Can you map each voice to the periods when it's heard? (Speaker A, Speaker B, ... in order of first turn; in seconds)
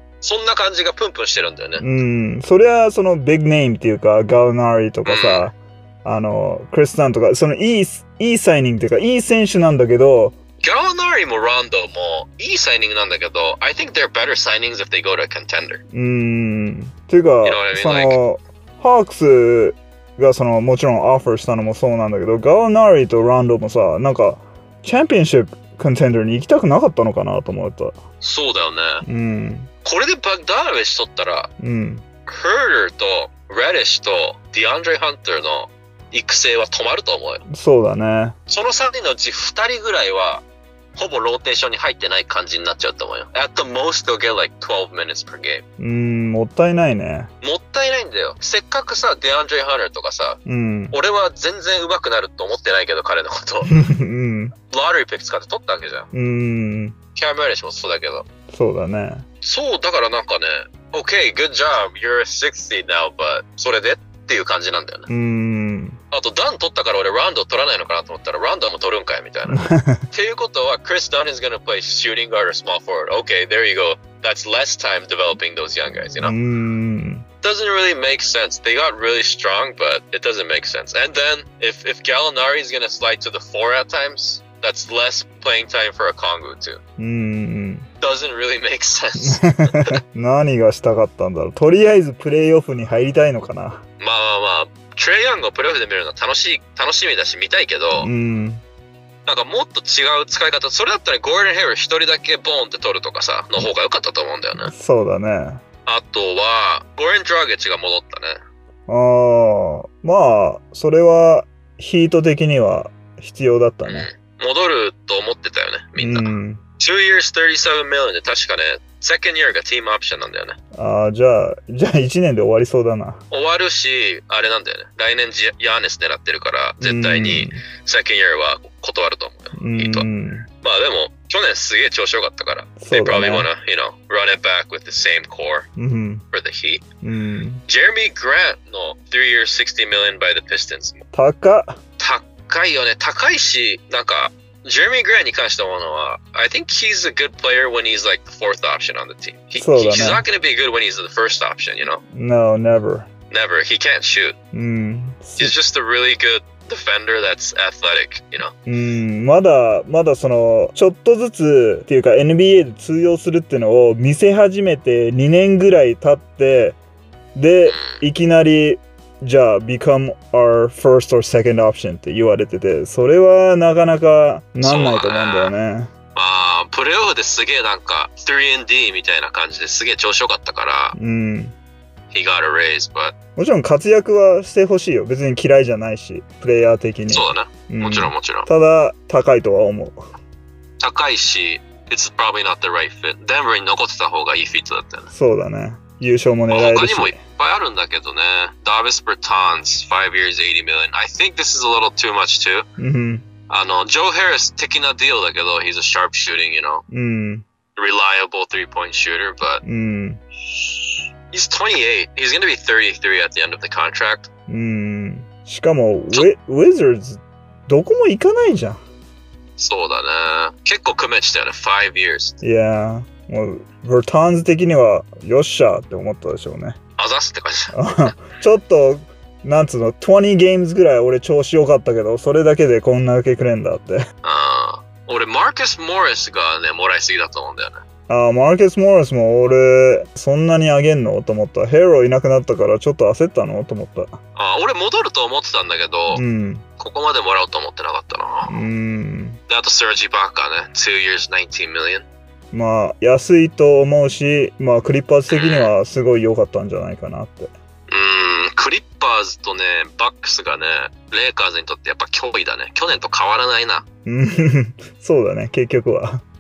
Speaker A: 0.2-1.8, 5.1-5.5, 10.6-15.8, 17.4-18.2, 28.2-29.1, 29.9-31.5, 32.3-37.4, 38.5-40.4, 41.0-45.6, 47.4-50.4, 50.9-53.8, 54.7-56.1, 57.1-58.2, 59.4-65.1, 66.1-76.4, 77.4-86.8, 88.0-90.0, 94.0-98.1, 99.3-104.7, 105.9-108.4, 113.9-120.6, 123.3-130.1, 130.6-135.7, 136.3-136.8, 137.7-141.0, 142.0-152.0, 153.3-154.4, 155.4-158.5, 167.7-168.0, 174.6-175.6, 176.2-181.0, 182.1-183.1, 187.1-188.5, 190.8-195.1, 196.5-202.7, 203.5-206.8, 207.8-209.6, 210.6-214.3, 219.6-222.4, 227.0-227.8, 234.2-237.8, 244.4-246.2, 246.8-248.5, 249.5-252.1, 255.3-255.7, 257.9-263.9
Speaker B: 1.8-10.4, 15.9-28.0, 29.0-29.7, 31.6-32.0, 37.5-38.4, 45.8-47.3, 50.5-51.0, 53.7-54.5, 56.1-57.0, 58.5-59.2, 65.1-66.0, 69.5-70.0, 76.2-77.2, 87.0-87.9, 89.2-93.8, 98.0-98.6, 104.6-105.6, 108.9-114.1, 116.0-116.6, 120.8-123.2, 126.8-127.6, 129.6-130.5, 132.8-133.5, 135.8-136.2, 137.0-137.6, 141.1-141.8, 149.6-150.2, 152.1-153.1, 154.5-155.6, 158.7-166.8, 167.3-175.9, 180.9-181.6, 183.4-190.1, 195.1-197.2, 202.8-203.3, 206.9-207.4, 209.6-210.2, 214.5-218.8, 222.4-226.8, 227.7-234.1, 238.1-244.2, 246.1-246.7, 248.5-249.4, 252.5-257.5, 264.1-266.2